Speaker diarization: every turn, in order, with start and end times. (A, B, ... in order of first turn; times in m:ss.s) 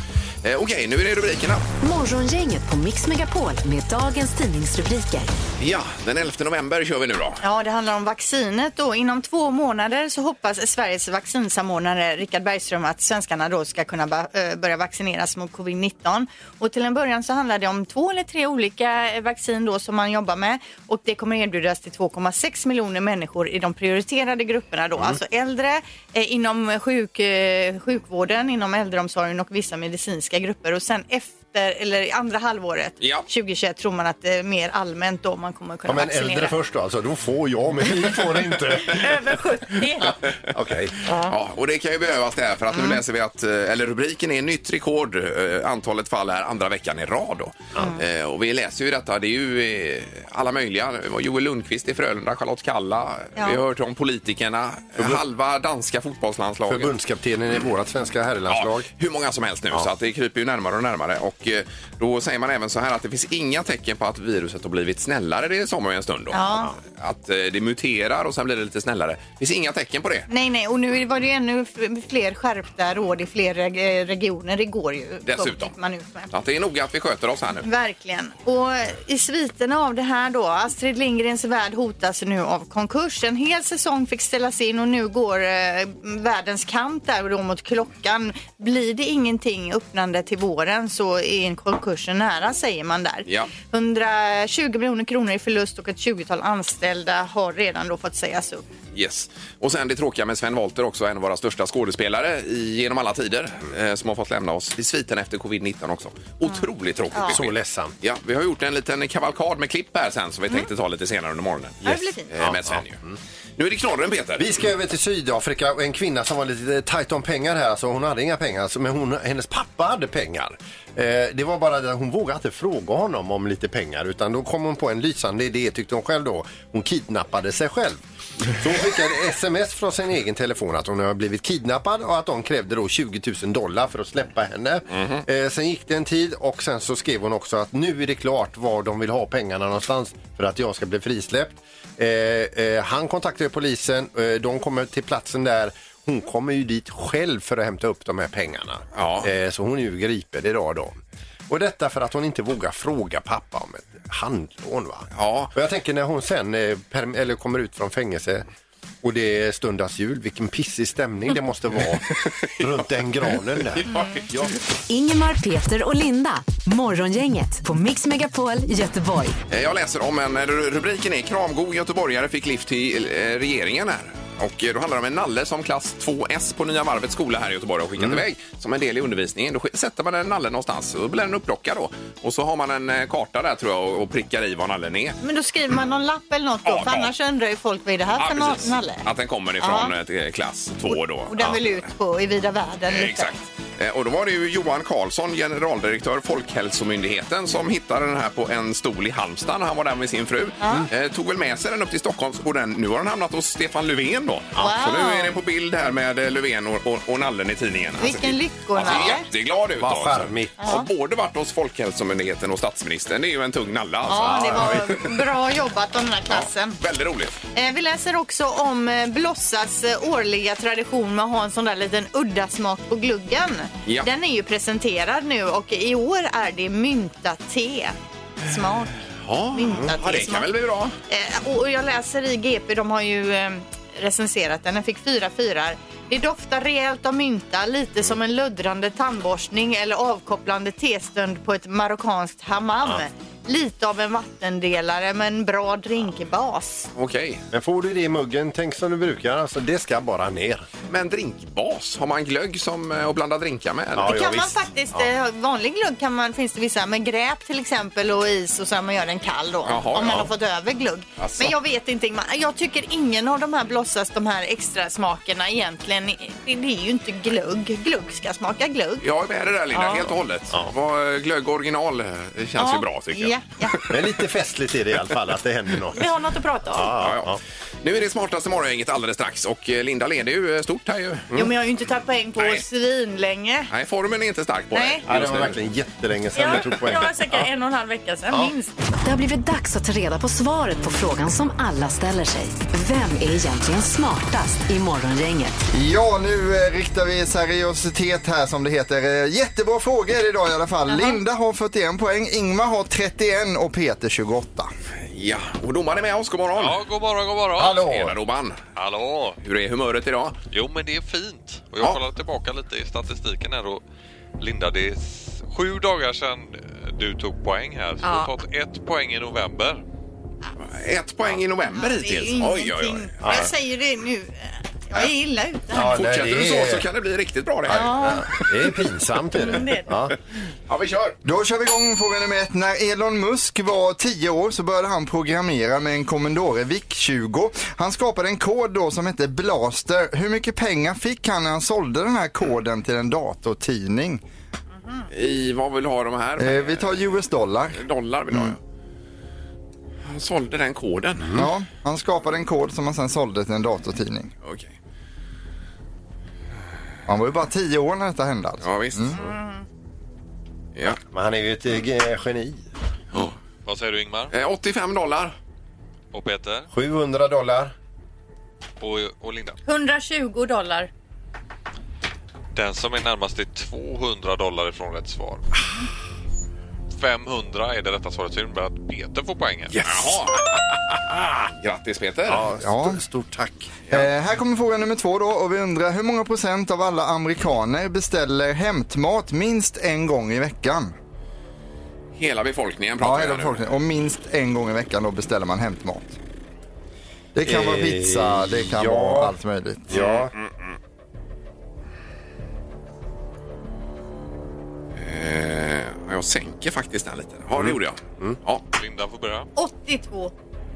0:00.4-0:01.6 A
0:01.8-0:05.3 B
0:05.6-0:07.4 A
0:07.4-0:36.6 C
0:33.0-0:33.3 A
0:35.9-0:39.1 D
0:38.8-0:40.2 C
0:40.1-0:41.0 D
0:41.2-0:56.9 A
0:42.7-0:43.0 C
0:56.7-0:58.9 D
0:58.5-1:10.3 A
1:06.3-1:06.7 C
1:10.3-1:16.3 C
1:15.2-1:15.7 A
1:16.3-1:17.7 A
1:17.6-1:38.6 C
1:33.3-1:33.5 A
1:38.9-1:53.0 A
1:46.5-1:47.4 C
1:47.3-1:47.9 D
1:51.8-1:52.3 C
1:52.4-1:53.2 D
1:53.6-1:54.5 A
1:54.4-2:08.0 D
2:08.6-2:38.4 D
2:14.9-2:15.2 A
2:28.9-2:29.3 A
2:35.1-2:35.5 A
2:39.0-2:44.5 D
2:42.2-2:42.7 A
2:43.7-2:44.3 A
2:43.9-2:44.2 C
2:44.9-2:49.4 B
2:49.5-3:05.2 A
2:58.0-2:58.2 D
3:05.2-3:09.1 C
3:06.7-3:07.1 A
3:08.2-3:11.8 A
3:09.6-3:09.9 C
3:10.9-3:13.3 C
3:12.9-3:35.1 A
3:20.6-3:20.9 C
3:24.6-3:25.3 C
3:28.0-3:29.3 C
3:29.8-3:30.7 D
3:30.6-3:30.9 C
3:34.1-3:36.8 C
3:34.5-3:34.8 D
3:36.3-3:37.4 A
3:37.5-3:49.0 C
3:49.1-3:51.0 A
3:49.5-3:50.5 C
3:51.1-4:06.9 C
4:07.0-4:07.4 A
4:07.5-4:10.7 D
4:10.9-4:14.2 A
4:14.0-4:15.1 D
4:14.0-4:29.1 C
4:19.7-4:20.3 A
4:20.0-4:20.3 D
4:21.2-4:21.6 A
4:29.0-4:33.9 A
4:29.7-4:30.1 C
4:32.6-4:33.8 C
4:33.9-4:36.1 D
4:35.9-4:36.9 C
4:36.7-4:37.4 D
4:37.0-4:41.4 A
4:41.3-4:43.7 C
4:42.4-4:42.6 A
4:43.7-4:45.6 A
4:44.7-4:45.0 C
4:45.1-4:47.5 D
4:46.4-4:48.8 C
4:49.0-4:55.6 B
4:55.7-5:04.7 E
5:00.9-5:01.2 C
5:05.1-5:06.8 A
5:06.6-5:07.9 F
5:07.6-5:08.1 D
5:07.8-5:08.6 A
5:08.8-5:09.4 F
5:09.4-5:10.4 A
5:10.5-5:13.8 F
5:14.4-5:19.8 F
5:18.0-5:18.3 C
5:20.6-5:23.5 A
5:21.7-5:26.0 C
5:23.2-5:23.5 D
5:25.7-5:26.9 D
5:25.8-5:27.9 A
5:27.7-5:30.2 D
5:27.7-5:28.4 C
5:29.3-5:29.9 C
5:30.7-5:31.2 A
5:31.2-5:44.2 E
5:45.1-5:47.2 A
5:46.4-5:48.6 E
5:47.7-5:48.6 A
5:50.0-5:51.3 A
5:51.2-5:51.5 D
5:51.3-5:54.3 E
5:54.4-5:54.7 A
5:57.1-5:59.2 E
5:58.6-5:59.2 A
5:59.2-5:59.6 C
6:01.1-6:02.6 D
6:03.6-6:04.3 F
6:04.3-6:05.4 A
6:06.1-6:06.7 F
6:06.7-6:07.7 D
6:08.8-6:09.6 F
6:09.7-6:10.9 C
6:12.6-6:15.4 F
6:17.0-6:20.0 F
6:19.8-6:22.4 A
6:22.3-6:23.8 D
6:22.6-6:23.0 E
6:23.9-6:30.9 E
6:32.2-6:33.6 A
6:33.0-6:36.2 E
6:37.4-6:40.0 E
6:37.4-6:39.4 D
6:39.9-6:40.3 D
6:39.9-6:40.8 A
6:45.0-6:48.6 A
6:47.6-6:48.4 D
6:48.7-6:49.5 F
6:49.6-6:50.3 C